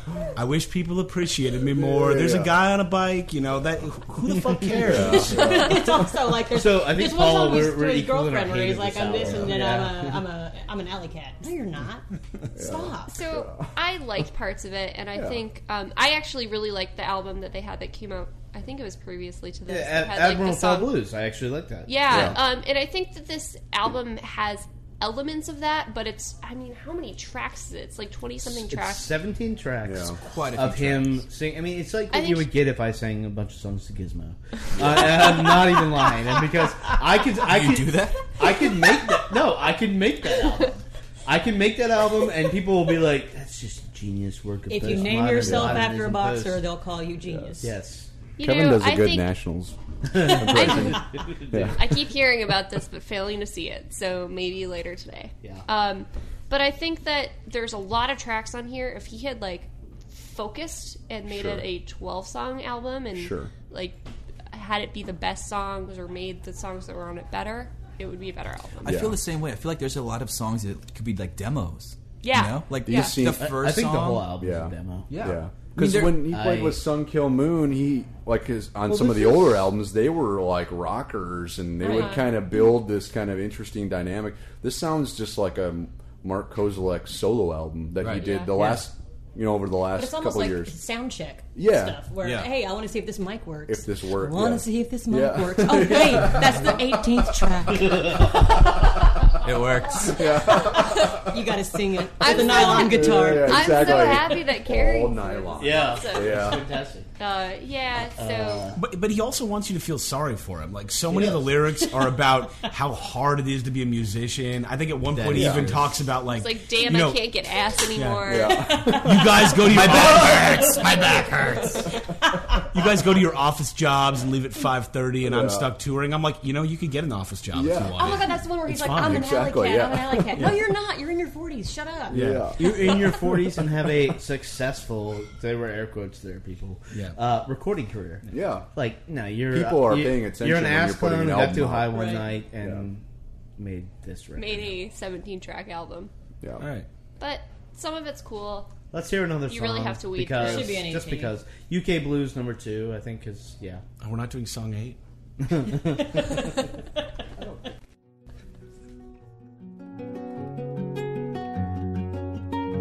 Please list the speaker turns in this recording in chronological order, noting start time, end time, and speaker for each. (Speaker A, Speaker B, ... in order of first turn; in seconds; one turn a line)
Speaker A: 0.3-5.7
Speaker B: 1.7-2.5
Speaker B: 4.8-5.9
Speaker C: 5.0-13.1
Speaker D: 5.8-10.2
Speaker B: 9.2-9.5
Speaker B: 12.6-13.8
Speaker E: 13.1-20.9
Speaker B: 15.2-15.4
Speaker D: 19.7-22.4
Speaker E: 21.9-29.1
Speaker B: 22.1-22.4
Speaker D: 28.4-46.6
Speaker B: 29.9-30.2
Speaker F: 30.2-31.2
Speaker E: 32.1-32.5
Speaker B: 34.8-35.2
Speaker F: 37.4-38.3
Speaker C: 44.7-47.7
Speaker B: 45.4-45.9
Speaker B: 47.2-47.5
Speaker D: 47.6-48.1
Speaker E: 48.4-49.3
Speaker B: 48.4-51.9
Speaker D: 50.0-51.9
Speaker E: 50.5-51.0
Speaker E: 51.7-64.0
Speaker B: 61.3-61.7
Speaker B: 63.1-63.5
Speaker E: 64.5-68.9
Speaker F: 68.8-74.3
Speaker B: 68.9-69.2
Speaker E: 72.2-73.2
Speaker B: 72.8-73.6
Speaker D: 73.3-75.1
Speaker B: 74.4-90.8
Speaker F: 75.1-76.3
Speaker D: 76.2-76.8
Speaker E: 81.8-82.6
Speaker F: 88.0-88.9
Speaker E: 88.2-88.7
Speaker C: 90.0-98.2
Speaker B: 91.5-92.0
Speaker F: 92.2-92.5
Speaker B: 93.7-96.9
Speaker D: 97.8-98.5
Speaker F: 99.4-100.5
Speaker B: 100.0-101.4
Speaker C: 100.5-103.9
Speaker E: 102.2-106.6
Speaker B: 102.2-106.6
Speaker D: 105.6-107.1
Speaker E: 107.2-108.7
Speaker D: 108.2-108.8
Speaker A: 108.8-117.3
Speaker D: 111.1-111.5
Speaker F: 115.1-116.0
Speaker B: 115.3-115.7
Speaker E: 116.2-118.8
Speaker A: 118.0-121.9
Speaker B: 118.3-121.0
Speaker C: 118.6-119.2
Speaker F: 119.7-120.1
Speaker A: 122.6-129.2
Speaker B: 125.2-125.7
Speaker B: 127.5-128.2
Speaker C: 128.0-132.2
Speaker B: 128.8-130.5
Speaker A: 130.3-130.7
Speaker B: 132.1-133.0
Speaker A: 132.1-132.9
Speaker D: 132.6-143.0
Speaker A: 136.9-137.2
Speaker B: 138.3-138.7
Speaker B: 139.5-142.9
Speaker C: 141.9-142.3
Speaker D: 143.6-144.8
Speaker E: 144.4-146.1
Speaker A: 146.6-146.9
Speaker E: 147.2-148.8
Speaker D: 148.9-153.8
Speaker E: 149.5-150.9
Speaker C: 150.4-151.3
Speaker A: 154.0-155.0
Speaker D: 155.4-156.5